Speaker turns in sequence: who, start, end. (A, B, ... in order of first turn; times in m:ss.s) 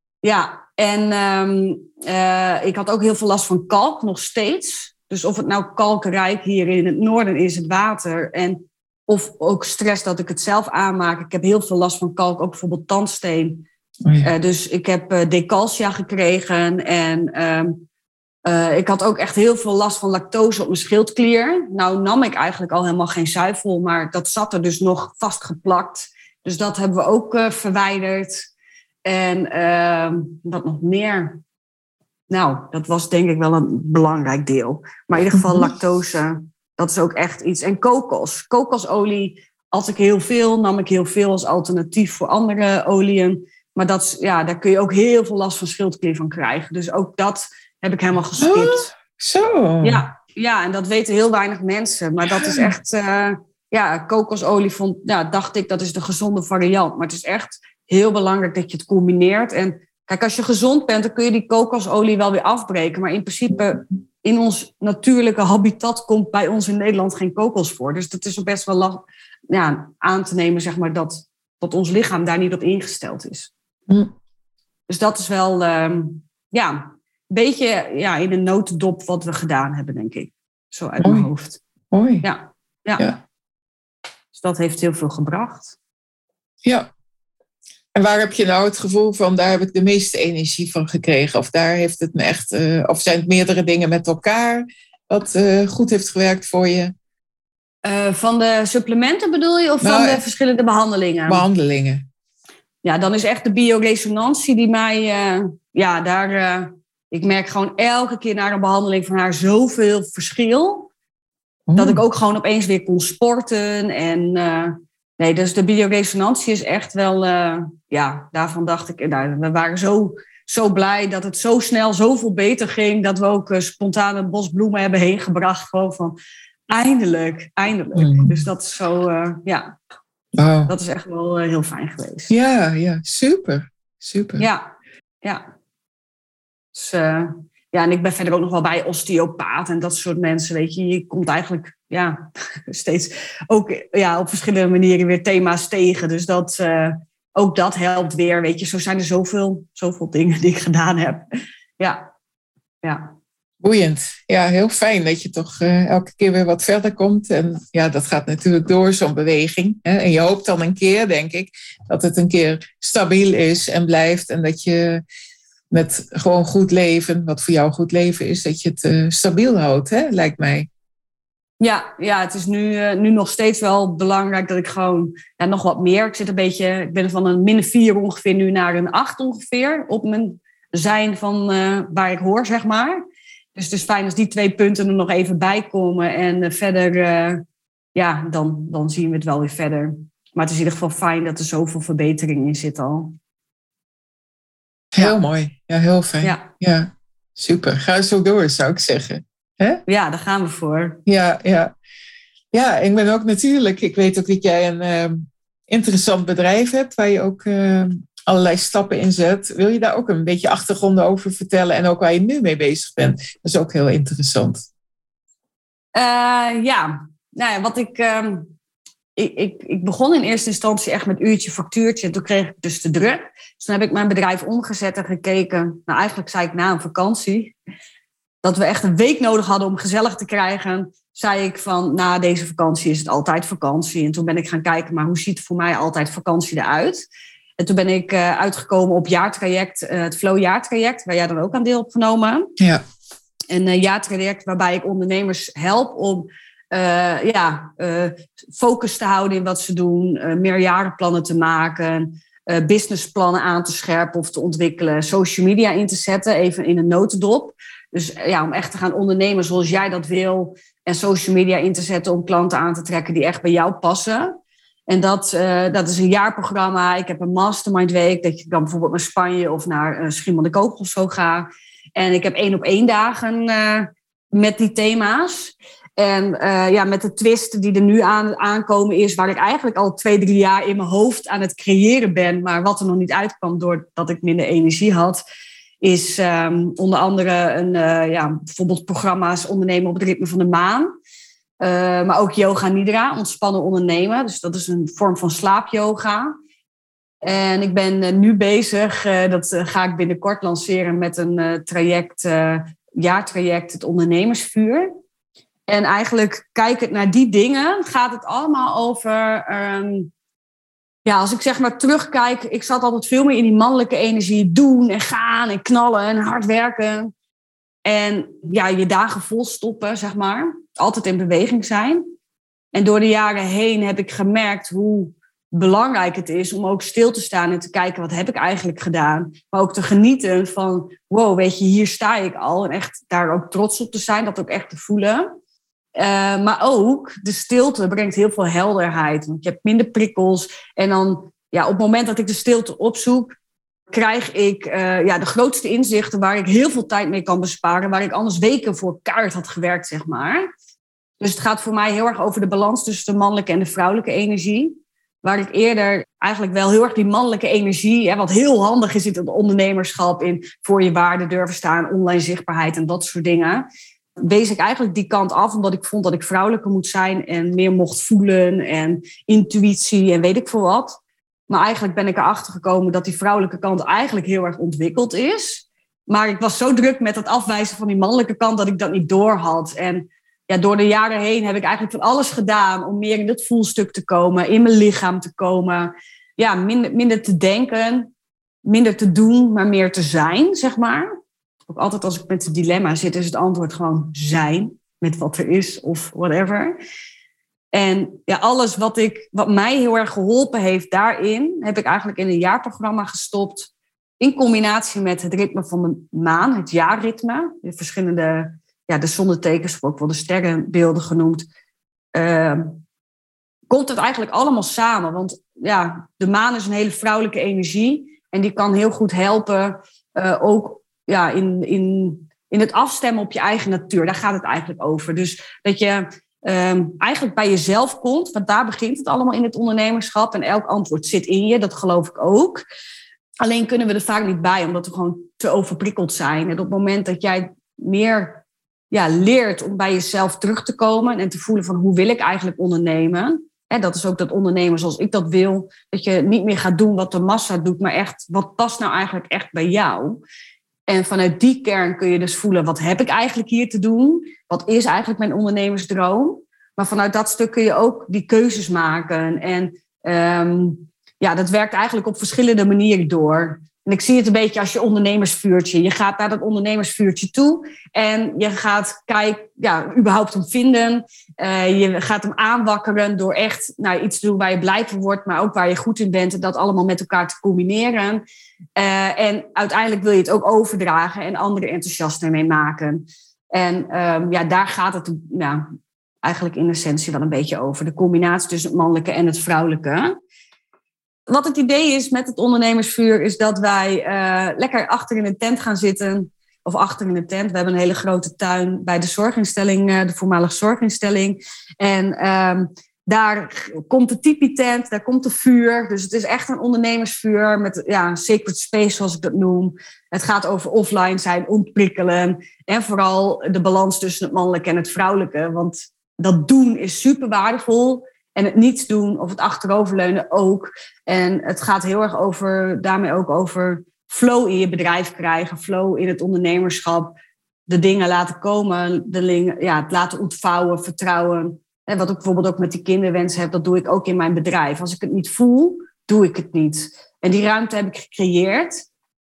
0:00.2-0:13.6 A
0:14.2-0:17.8 A
0:18.4-0:28.5 A
0:29.0-0:31.4 A
0:32.3-0:48.9 A
0:35.3-0:35.7 B
0:48.4-0:50.0 B
0:49.8-1:13.5 A
0:52.4-0:52.7 B
1:14.9-1:21.6 A
1:21.0-1:21.3 B
1:21.9-1:22.2 B
1:22.2-1:23.1 A
1:24.3-1:25.8 A
1:26.6-1:26.9 B
1:27.9-1:36.9 B
1:37.8-1:41.4 A
1:39.8-1:40.2 B
1:41.3-1:42.0 B
1:42.8-1:50.9 A
1:51.7-1:52.0 B
1:51.8-2:06.2 A
2:06.7-2:09.7 A
2:08.0-2:08.4 B
2:10.3-2:10.7 B
2:10.7-2:12.3 A
2:12.3-2:14.4 B
2:14.4-2:15.4 A
2:16.7-2:31.2 A
2:31.8-2:32.0 A
2:32.8-2:33.1 A
2:33.6-2:45.0 B
2:45.7-2:50.7 B
2:51.6-3:03.0 A
3:03.6-3:07.4 A
3:07.9-3:13.1 A
3:14.9-3:19.8 B
3:16.2-3:16.5 A
3:19.9-3:21.0 A
3:21.0-3:21.7 B
3:22.5-3:34.6 B
3:35.9-3:38.5 A
3:39.2-3:47.5 A
3:48.4-3:57.0 A
3:57.6-4:02.5 A
4:02.6-4:02.8 B
4:03.5-4:24.4 A
4:24.9-4:45.2 A
4:45.8-4:50.9 A
4:51.6-4:56.3 A
4:57.2-5:04.9 A
5:05.7-5:10.1 A
5:11.0-5:17.1 A
5:17.8-5:22.0 A
5:22.7-5:35.3 A
5:36.0-5:43.4 A
5:43.9-5:50.5 A
5:51.2-6:03.6 A
6:04.2-6:28.1 A
6:28.6-6:31.1 A
6:31.7-6:36.8 A
6:37.7-6:51.5 A
6:52.1-6:52.8 A
6:53.7-7:12.6 A
7:13.4-7:30.2 A
7:30.9-7:58.2 A
7:58.8-8:05.7 A
8:06.2-8:10.1 A
8:11.3-8:58.8 A